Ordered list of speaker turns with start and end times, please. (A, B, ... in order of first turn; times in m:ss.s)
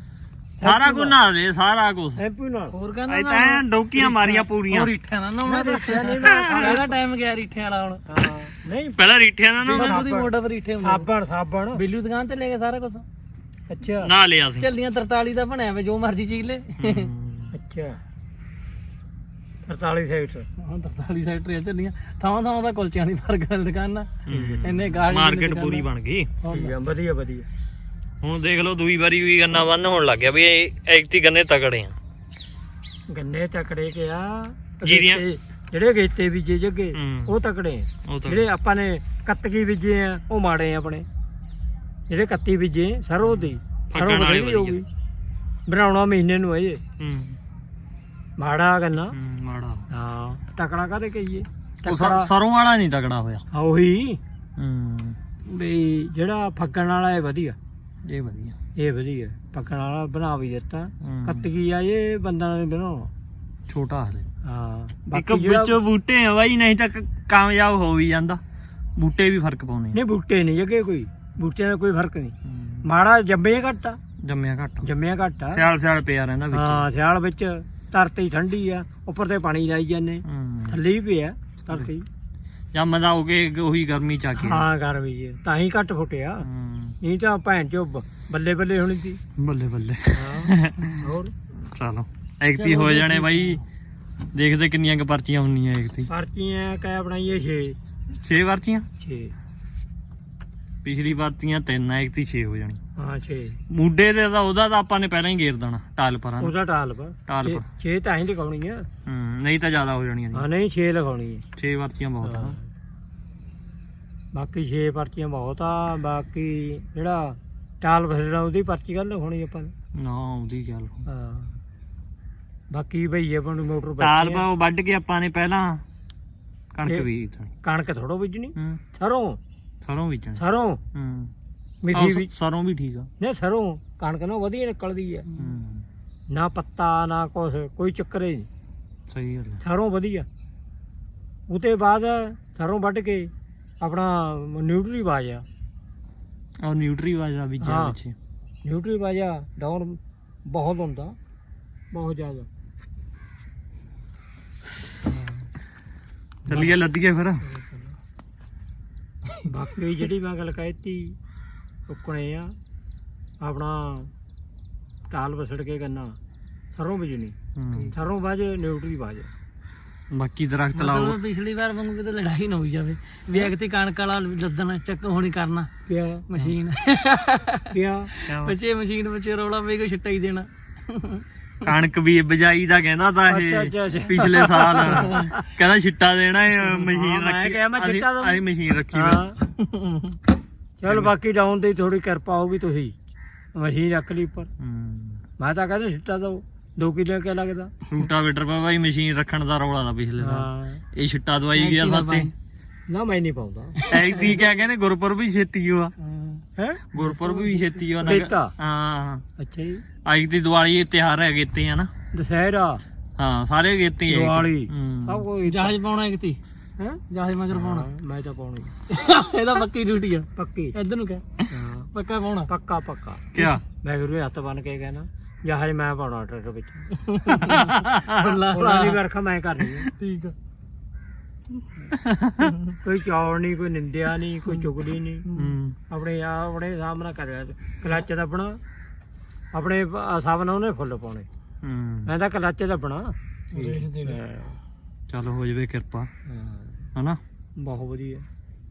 0:00.6-0:01.2 A
0:00.6-0:02.2 B
0:02.2-0:02.8 A
0:02.7-0:08.1 C
0:03.1-0:04.9 B
0:05.4-0:06.9 A
0:06.2-0:06.8 B
0:08.1-0:09.0 A
0:09.0-0:10.0 B
0:09.6-0:11.8 A
0:09.7-0:11.1 C
0:11.7-0:13.0 C
0:13.7-0:14.1 A
0:14.0-0:14.7 B
0:14.6-0:17.1 C
0:16.8-0:17.5 B
0:17.5-0:18.0 A
0:19.7-0:20.5 A
0:20.6-0:25.9 C
0:24.3-0:26.3 B
0:24.3-0:24.6 A
0:26.4-0:26.7 C
0:26.5-0:27.5 A
0:28.2-0:32.0 B
0:33.1-0:41.1 A
0:34.8-0:35.2 B
0:36.9-0:37.3 B
0:38.1-0:38.5 B
0:42.1-0:44.9 A
0:43.2-0:44.8 B
0:45.7-0:46.8 A
0:47.0-0:47.4 B
0:48.4-0:49.2 A
0:49.1-0:49.9 B
0:49.9-0:52.3 A
0:51.8-0:53.4 B
0:53.5-0:54.2 A
0:54.6-0:55.2 B
0:55.5-0:57.6 A
0:58.1-0:58.6 B
0:58.8-1:03.1 A
1:01.0-1:01.5 B
1:03.7-1:04.3 B
1:04.4-1:05.8 A
1:05.1-1:08.4 B
1:09.0-1:10.0 B
1:09.9-1:14.0 A
1:12.5-1:12.9 B
1:14.2-1:14.9 B
1:14.8-1:15.6 A
1:15.5-1:16.9 B
1:16.5-1:22.1 A
1:20.3-1:20.8 B
1:22.7-1:24.7 B
1:24.4-1:26.4 A
1:26.4-1:27.0 B
1:27.0-1:29.2 A
1:29.4-1:31.0 B
1:30.1-1:31.3 A
1:31.6-1:33.6 B
1:32.6-1:33.6 C
1:34.3-1:36.1 B
1:36.1-1:37.8 A
1:38.2-1:38.9 B
1:39.0-1:39.3 A
1:40.8-1:42.8 B
1:43.0-1:43.6 A
1:43.7-1:46.5 B
1:46.4-1:48.9 A
1:47.3-1:47.6 B
1:49.1-1:50.5 B
1:50.3-1:51.4 A
1:51.6-1:52.6 B
1:52.2-1:52.6 A
1:54.3-1:59.7 A
2:00.0-2:01.0 B
2:01.1-2:01.6 A
2:02.7-2:04.5 A
2:04.0-2:05.8 B
2:06.7-2:07.5 B
2:07.6-2:09.4 A
2:08.6-2:08.8 B
2:09.8-2:10.4 B
2:10.4-2:10.8 A
2:10.9-2:11.3 B
2:11.8-2:12.3 A
2:11.9-2:13.1 B
2:13.2-2:15.3 A
2:15.4-2:15.9 B
2:16.3-2:18.5 A
2:19.1-2:19.6 B
2:19.6-2:20.3 A
2:21.5-2:25.4 A
2:26.6-2:28.2 B
2:27.6-2:28.0 A
2:28.6-2:31.2 A
2:31.9-2:32.5 A
2:36.5-2:37.4 B
2:37.5-2:37.8 C
2:39.5-2:41.2 A
2:41.9-2:42.5 A
2:43.4-2:44.1 A
2:45.1-2:46.2 A
2:46.8-2:47.4 A
2:47.6-2:48.0 B
2:47.9-2:49.3 A
2:50.1-2:51.2 B
2:50.7-2:55.7 C
2:55.9-2:56.3 A
2:56.3-3:01.2 C
2:57.7-2:58.1 A
2:58.3-2:58.6 B
3:01.6-3:09.3 B
3:03.3-3:05.3 A
3:04.8-3:05.3 C
3:06.6-3:09.6 A
3:10.8-3:12.9 A
3:10.9-3:11.1 B
3:13.6-3:14.5 A
3:14.6-3:15.2 B
3:15.4-3:17.7 A
3:17.9-3:22.3 B
3:20.2-3:20.8 A
3:21.6-3:22.3 C
3:22.9-3:23.8 A
3:23.8-3:24.4 C
3:23.9-3:25.9 B
3:26.0-3:26.4 C
3:26.6-3:28.5 A
3:26.9-3:29.2 B
3:29.4-3:29.8 A
3:30.1-3:31.9 B
3:32.1-3:32.8 A
3:33.2-3:35.2 B
3:34.1-3:35.8 A
3:35.5-3:36.4 C
3:37.1-3:37.9 C
3:37.6-3:38.7 A
3:38.9-3:41.2 C
3:40.4-3:40.8 A
3:41.5-3:41.9 A
3:41.9-3:42.5 C
3:42.5-3:43.3 A
3:43.3-3:43.6 B
3:43.8-3:46.9 A
3:47.0-3:49.0 C
3:47.4-3:48.2 B
3:48.5-3:49.9 A
3:49.8-3:50.4 C
3:52.0-3:52.5 B
3:52.4-3:52.7 C
3:52.8-3:55.2 A
3:55.3-3:55.6 C
3:55.4-3:55.8 B
3:55.9-3:58.6 A
3:59.5-4:01.3 A
4:01.6-4:02.1 B
4:02.1-4:04.6 A
4:03.5-4:04.2 C
4:05.1-4:06.1 B
4:06.3-4:06.9 A
4:07.6-4:08.2 A